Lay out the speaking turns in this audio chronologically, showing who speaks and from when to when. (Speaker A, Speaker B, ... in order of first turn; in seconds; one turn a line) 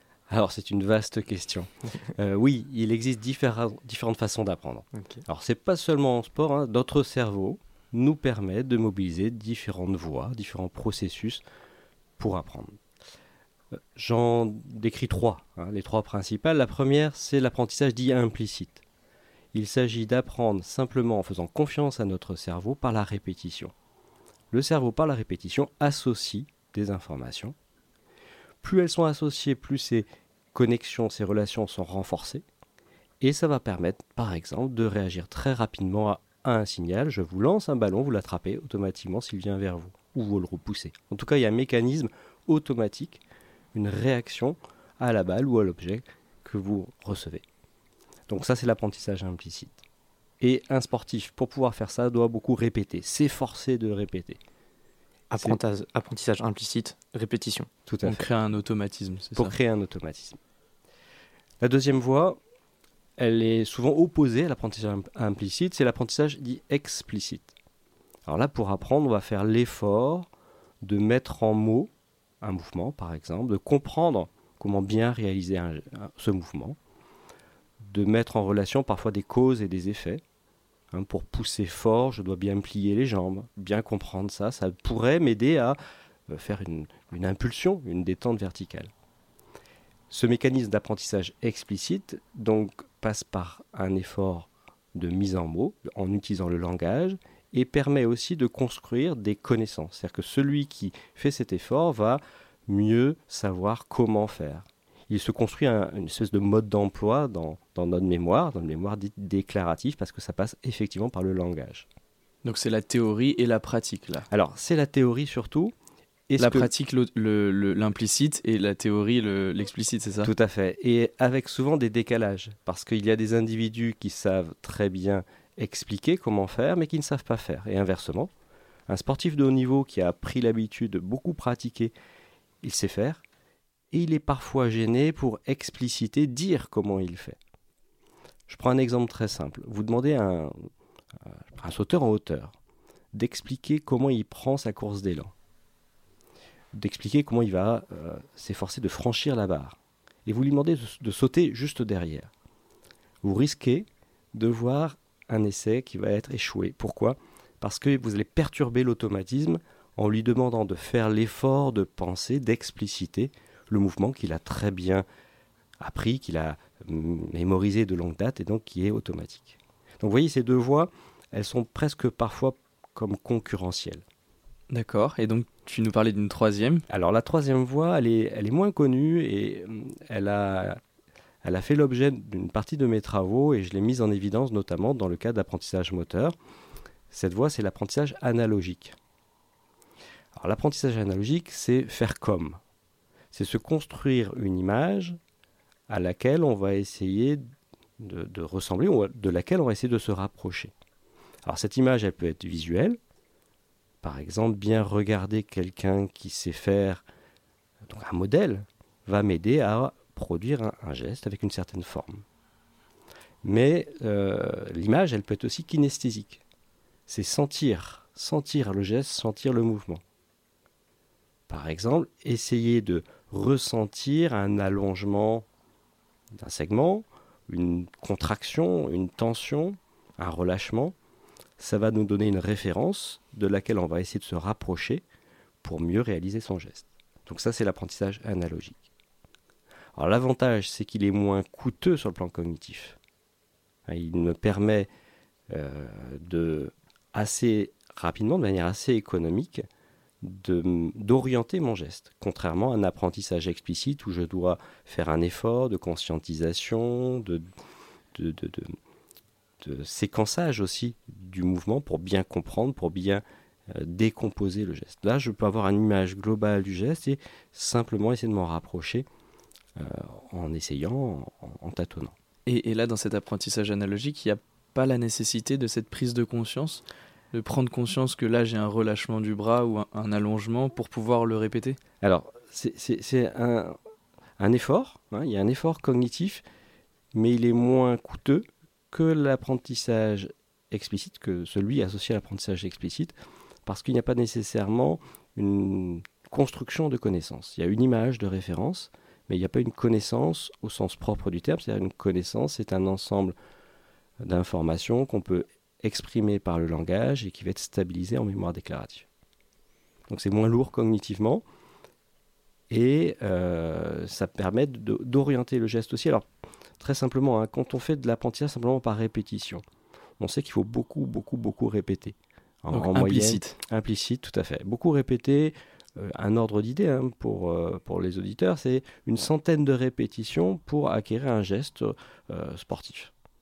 Speaker A: 0.3-11.4
Speaker B: 4.9-5.2
Speaker A: 12.2-12.8
Speaker A: 13.7-18.8
Speaker A: 19.5-23.7
Speaker A: 24.5-27.5
Speaker A: 28.6-32.4
Speaker A: 33.2-43.2
Speaker A: 43.7-47.4
Speaker A: 48.3-49.8
Speaker A: 50.4-54.4
Speaker B: 55.3-57.7
Speaker A: 57.9-58.2
Speaker C: 58.0-59.5
Speaker A: 59.3-60.4
Speaker A: 61.6-62.4
Speaker A: 63.2-67.5
Speaker A: 68.3-70.3
Speaker A: 70.8-76.8
Speaker A: 77.8-80.2
Speaker A: 80.9-88.9
Speaker A: 90.1-111.9
Speaker C: 112.4-114.3
Speaker A: 114.3-115.7
Speaker A: 116.3-116.7
Speaker C: 116.4-120.3
Speaker A: 120.2-128.3
Speaker A: 128.9-131.9
Speaker A: 132.6-133.2
Speaker A: 133.9-137.4
Speaker A: 138.5-140.7
Speaker A: 141.2-142.5
Speaker A: 143.1-145.3
Speaker A: 146.7-152.3
Speaker A: 153.2-165.0
Speaker A: 165.8-174.0
Speaker C: 174.7-176.8
Speaker A: 176.9-180.8
Speaker A: 181.4-186.3
Speaker A: 187.1-188.9
Speaker A: 190.3-192.6
Speaker A: 193.3-195.2
Speaker A: 195.9-197.4
Speaker A: 198.0-200.7
Speaker A: 201.4-203.0
Speaker A: 204.0-207.0
Speaker A: 207.8-212.2
Speaker A: 213.4-216.4
Speaker A: 217.1-220.0
Speaker A: 221.5-225.4
Speaker A: 226.3-230.9
Speaker A: 231.6-235.0
Speaker A: 235.6-238.8
Speaker A: 239.9-243.0
Speaker A: 243.9-244.9
Speaker A: 245.5-249.6
Speaker A: 250.2-257.5
Speaker A: 258.1-258.8
Speaker A: 259.6-269.1
Speaker A: 269.8-272.1
Speaker C: 272.4-281.8
Speaker A: 282.0-283.8
Speaker A: 284.4-286.4
Speaker A: 287.1-293.1
Speaker A: 293.6-303.4
Speaker A: 304.2-309.1
Speaker A: 310.1-311.4
Speaker A: 312.7-316.3
Speaker A: 316.8-319.6
Speaker A: 320.2-333.1
Speaker C: 322.7-323.6